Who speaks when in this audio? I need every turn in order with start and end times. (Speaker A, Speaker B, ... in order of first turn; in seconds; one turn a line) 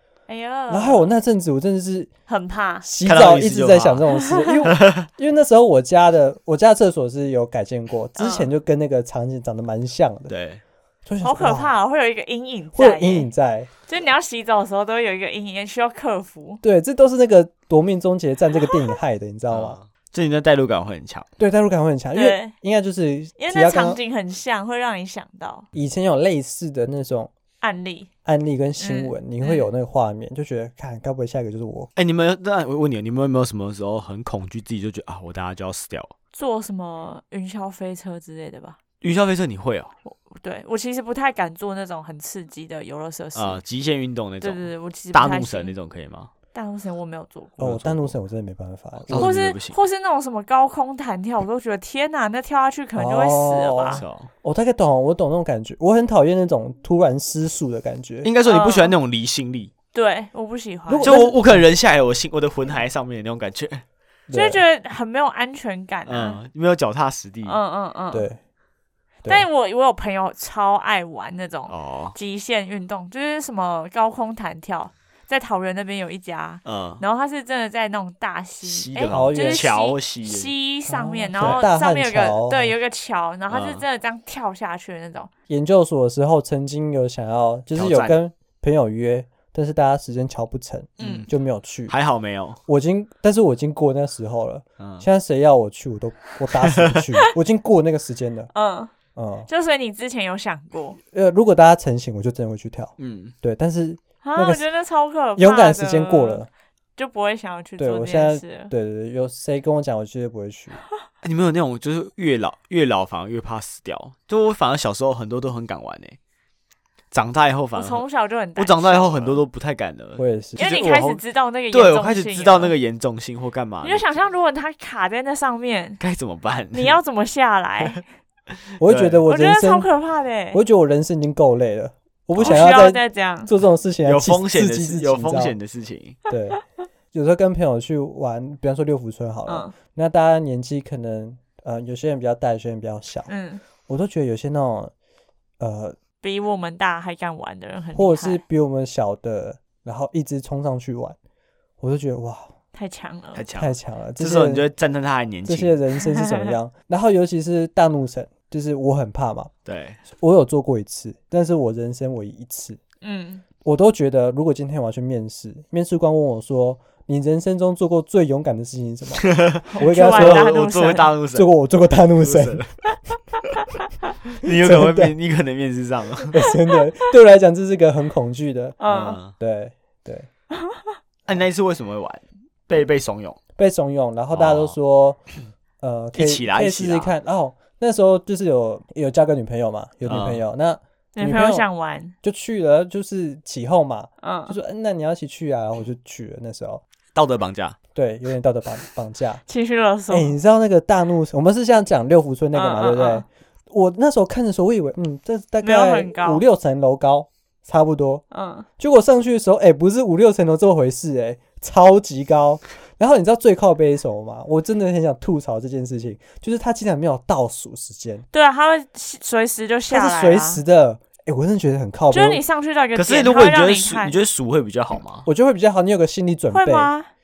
Speaker A: 0.3-1.1
Speaker B: 0.7-2.1
Speaker A: 2.3-2.9
Speaker B: 2.8-10.3
Speaker C: 3.0-4.1
Speaker A: 4.3-4.6
Speaker C: 4.6-5.1
Speaker A: 8.2-8.5
Speaker C: 10.3-10.6
Speaker B: 11.1-11.7
Speaker A: 11.2-13.3
Speaker B: 12.7-13.7
Speaker A: 13.8-16.6
Speaker B: 16.6-19.8
Speaker C: 19.5-21.3
Speaker B: 21.4-24.0
Speaker A: 22.1-22.5
Speaker A: 23.4-25.6
Speaker B: 25.7-27.3
Speaker A: 27.6-28.1
Speaker B: 28.2-31.9
Speaker A: 28.8-29.7
Speaker C: 31.9-36.1
Speaker A: 36.3-38.8
Speaker C: 39.0-39.9
Speaker A: 40.0-43.6
Speaker C: 43.3-46.3
Speaker A: 44.4-45.7
Speaker A: 46.5-47.8
Speaker B: 47.6-49.3
Speaker C: 47.6-48.1
Speaker C: 49.1-49.8
Speaker A: 49.1-54.0
Speaker B: 52.9-58.3
Speaker C: 53.9-54.3
Speaker C: 58.2-59.7
Speaker A: 58.4-58.9
Speaker A: 59.9-61.3
Speaker B: 60.9-61.6
Speaker C: 61.0-63.8
Speaker B: 64.3-64.6
Speaker A: 64.3-66.4
Speaker C: 66.1-67.6
Speaker A: 67.4-68.3
Speaker B: 68.1-68.4
Speaker A: 69.2-85.3
Speaker C: 71.7-72.2
Speaker C: 76.6-77.0
Speaker C: 78.6-80.5
Speaker B: 79.1-79.7
Speaker B: 80.9-82.7
Speaker C: 83.5-83.8
Speaker B: 85.5-91.9
Speaker C: 87.7-88.2
Speaker A: 91.0-91.3
Speaker C: 91.0-91.3
Speaker C: 91.9-92.6
Speaker B: 92.7-98.5
Speaker C: 94.8-95.0
Speaker C: 96.6-97.0
Speaker A: 98.5-98.9
Speaker B: 99.2-99.5
Speaker A: 99.5-101.0
Speaker B: 101.1-104.6
Speaker C: 103.0-103.3
Speaker A: 104.2-106.4
Speaker B: 105.4-106.5
Speaker A: 107.0-108.7
Speaker B: 107.8-110.8
Speaker C: 111.2-116.2
Speaker C: 117.1-118.0
Speaker A: 117.7-119.4
Speaker C: 118.5-124.0
Speaker B: 120.2-120.7
Speaker A: 120.6-122.7
Speaker A: 123.8-126.0
Speaker C: 126.0-127.0
Speaker A: 126.7-128.0
Speaker C: 128.8-129.2
Speaker B: 128.8-129.9
Speaker A: 129.3-130.6
Speaker B: 130.5-135.6
Speaker C: 132.4-132.6
Speaker A: 132.4-133.5
Speaker C: 134.0-136.2
Speaker B: 136.3-136.6
Speaker B: 137.1-143.3
Speaker A: 139.5-139.7
Speaker A: 143.3-143.6
Speaker B: 143.9-144.9
Speaker B: 145.6-145.9
Speaker A: 146.2-148.4
Speaker B: 147.9-151.2
Speaker B: 151.8-152.5
Speaker A: 152.7-153.4
Speaker C: 153.3-155.8
Speaker B: 153.6-154.7
Speaker B: 155.4-159.5
Speaker A: 156.0-156.5
Speaker C: 159.7-160.0
Speaker B: 160.1-162.8
Speaker A: 163.0-163.4
Speaker B: 163.6-170.5
Speaker C: 169.2-171.5
Speaker A: 169.7-171.1
Speaker B: 171.3-172.6
Speaker C: 172.2-172.7
Speaker C: 174.3-176.4
Speaker B: 174.4-175.1
Speaker B: 176.3-180.3
Speaker A: 178.8-179.2
Speaker C: 178.9-179.3
Speaker C: 181.2-183.4
Speaker B: 183.6-185.2
Speaker C: 184.3-184.7
Speaker B: 185.8-191.7
Speaker C: 186.1-187.1
Speaker C: 190.0-190.4
Speaker A: 191.1-192.1
Speaker B: 192.2-196.8
Speaker A: 194.2-194.6
Speaker C: 197.1-197.8
Speaker B: 197.9-199.4
Speaker A: 199.5-200.3
Speaker B: 200.1-208.2
Speaker A: 202.5-203.2
Speaker A: 205.6-206.4
Speaker A: 208.3-208.7
Speaker B: 208.8-218.2
Speaker A: 218.3-220.6
Speaker B: 219.9-222.4
Speaker A: 222.1-224.2
Speaker C: 222.9-225.3
Speaker B: 225.2-226.9
Speaker A: 226.5-227.1